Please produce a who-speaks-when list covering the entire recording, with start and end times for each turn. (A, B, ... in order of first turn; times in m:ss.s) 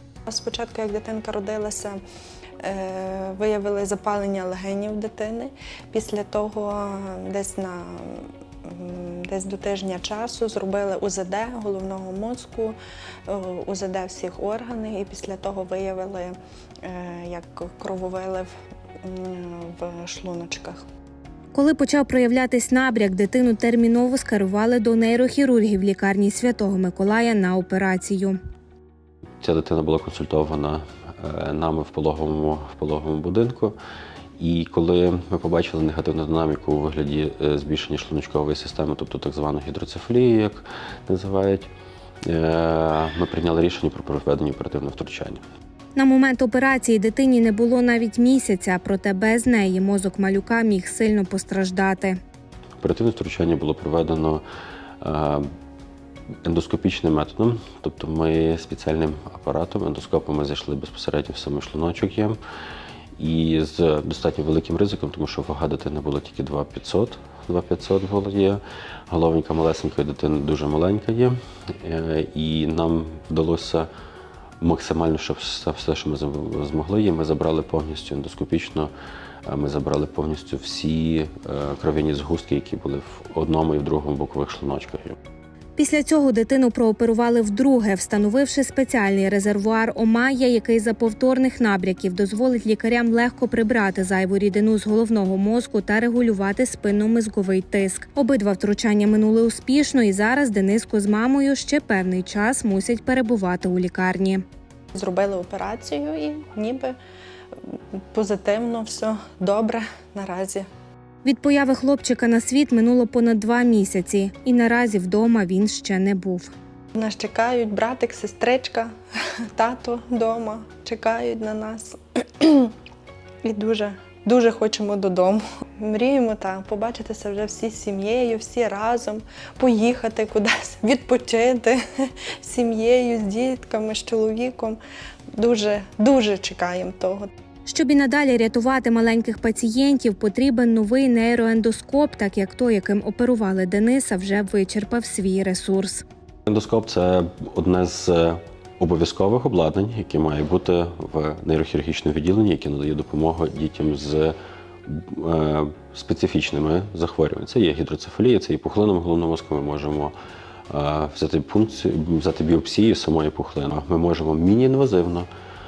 0:00.3-0:02.0 A
0:02.6-0:12.8 A
0:13.3-0:16.3 A
0:16.9-0:18.5 A
0:19.0-0:20.8 A
0:21.5-0:28.4 B
0:29.4-0:33.8 C
0:34.4-0:41.7 C
0:42.3-0:45.4 C
0:46.0-0:52.2 B
0:52.8-0:54.4 C
0:55.0-0:55.4 C
0:56.4-1:02.4 C
1:03.2-1:13.9 C
1:14.6-1:18.9 C
1:19.4-1:25.2 C
1:25.8-1:44.4 B
1:44.9-1:47.0 A
1:47.7-1:50.7 A
1:51.2-1:56.5 B
1:57.0-1:58.9 A
1:59.6-2:02.7 A
2:03.4-2:11.8 A
2:12.4-2:14.8 A
2:15.4-2:17.3 A
2:17.6-2:26.0 B
2:26.5-2:34.4 C
2:34.9-2:40.1 C
2:40.7-2:45.3 C